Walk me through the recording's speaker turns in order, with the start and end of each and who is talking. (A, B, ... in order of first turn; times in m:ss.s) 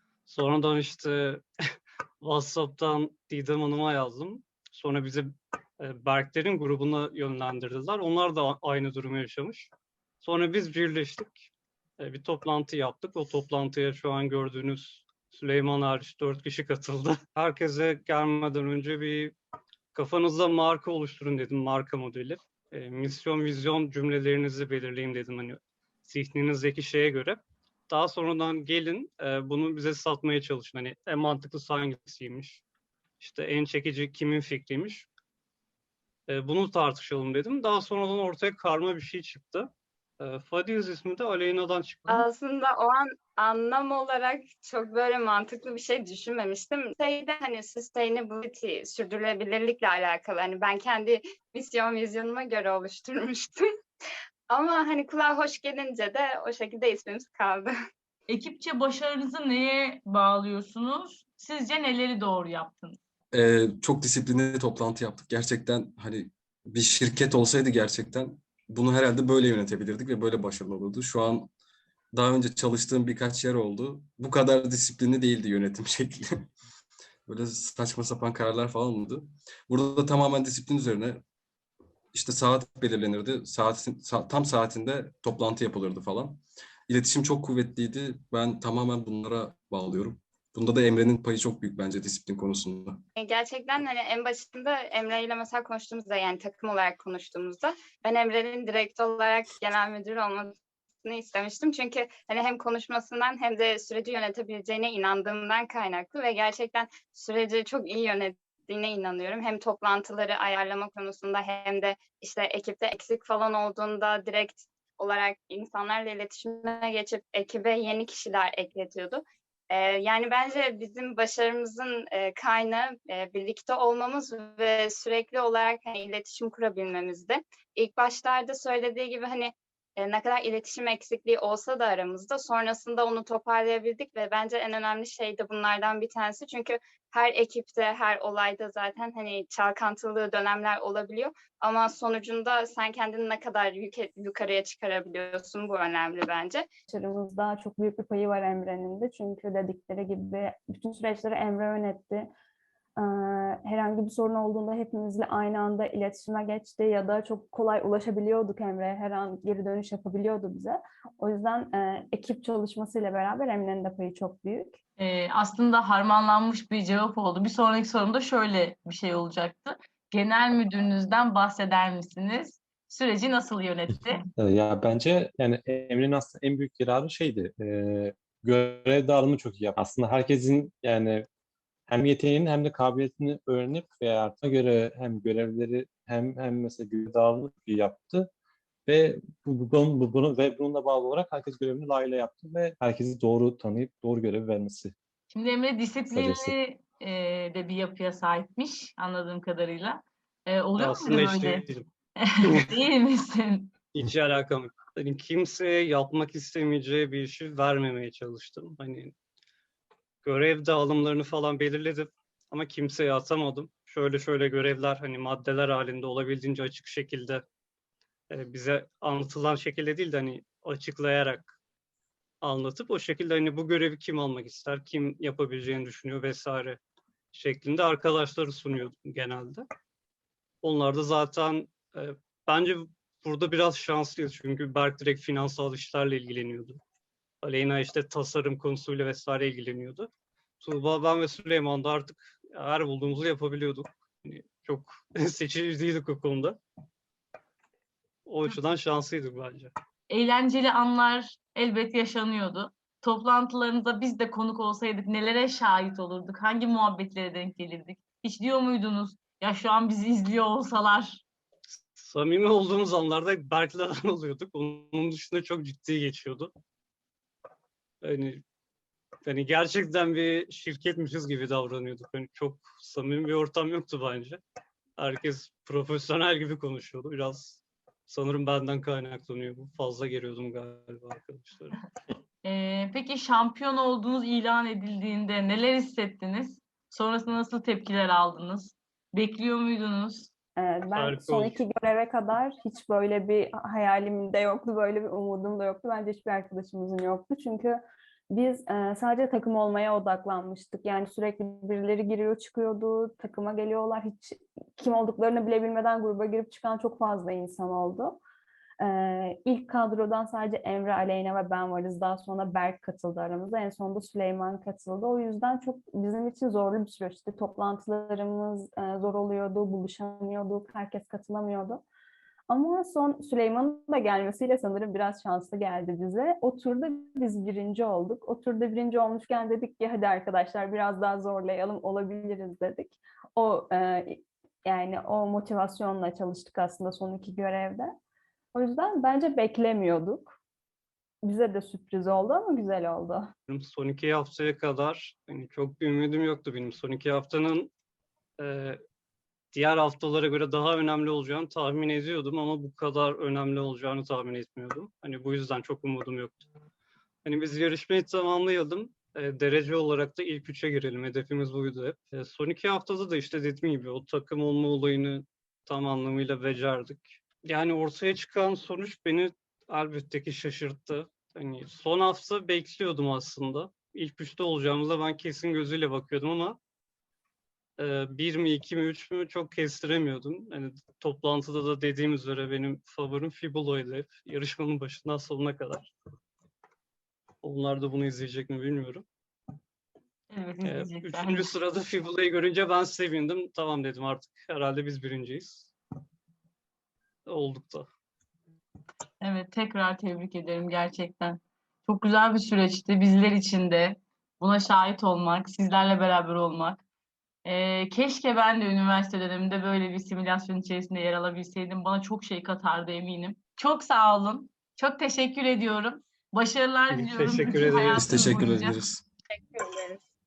0:00.3-0:01.4 A
0:02.2-0:09.7 A
0:10.2-0:19.3 A
0:19.9-0:32.6 A
0:33.2-0:35.1 A
0:36.3-0:42.3 A
0:42.1-0:53.6 B
0:54.5-0:57.7 B
0:58.3-1:03.0 C
1:03.3-1:11.5 D
1:12.1-1:16.5 D
1:17.2-1:21.2 D
1:22.1-1:33.0 D
1:33.2-2:26.7 B
2:26.9-2:32.3 E
2:33.0-2:44.8 E
2:45.0-2:54.2 C
2:54.4-3:01.2 F
3:01.9-3:08.3 F
3:08.8-3:14.9 F
3:15.3-3:21.6 C
3:16.1-3:16.5 F
3:20.8-3:21.8 A
3:22.2-3:23.7 C
3:23.9-3:29.1 A
3:30.2-3:37.4 A
3:38.3-3:41.5 A
3:42.4-3:46.8 A
3:47.3-3:49.6 A
3:50.6-3:56.8 A
3:57.4-4:00.1 A
4:00.6-4:06.6 A
4:08.2-4:09.7 A
4:10.1-4:21.2 C
4:22.0-4:26.5 A
4:28.0-4:28.4 A
4:29.2-4:34.4 A
4:35.0-4:41.8 A
4:42.4-4:50.3 C
4:50.6-4:57.8 E
4:50.9-4:51.6 A
4:58.3-5:08.2 E
5:08.8-5:21.8 E
5:22.5-5:37.9 E
5:38.5-5:40.4 E
5:41.2-5:43.3 E
5:43.5-5:47.7 A
5:48.4-5:48.8 A
5:49.5-5:56.4 A
5:57.2-6:16.6 A
6:17.8-6:25.9 A
6:27.4-6:29.0 A
6:30.3-6:31.5 C
6:30.6-6:35.7 A
6:37.2-6:37.9 A
6:39.2-6:46.8 C
6:47.4-6:58.8 C
6:56.9-6:58.3 A
6:57.9-6:59.0 D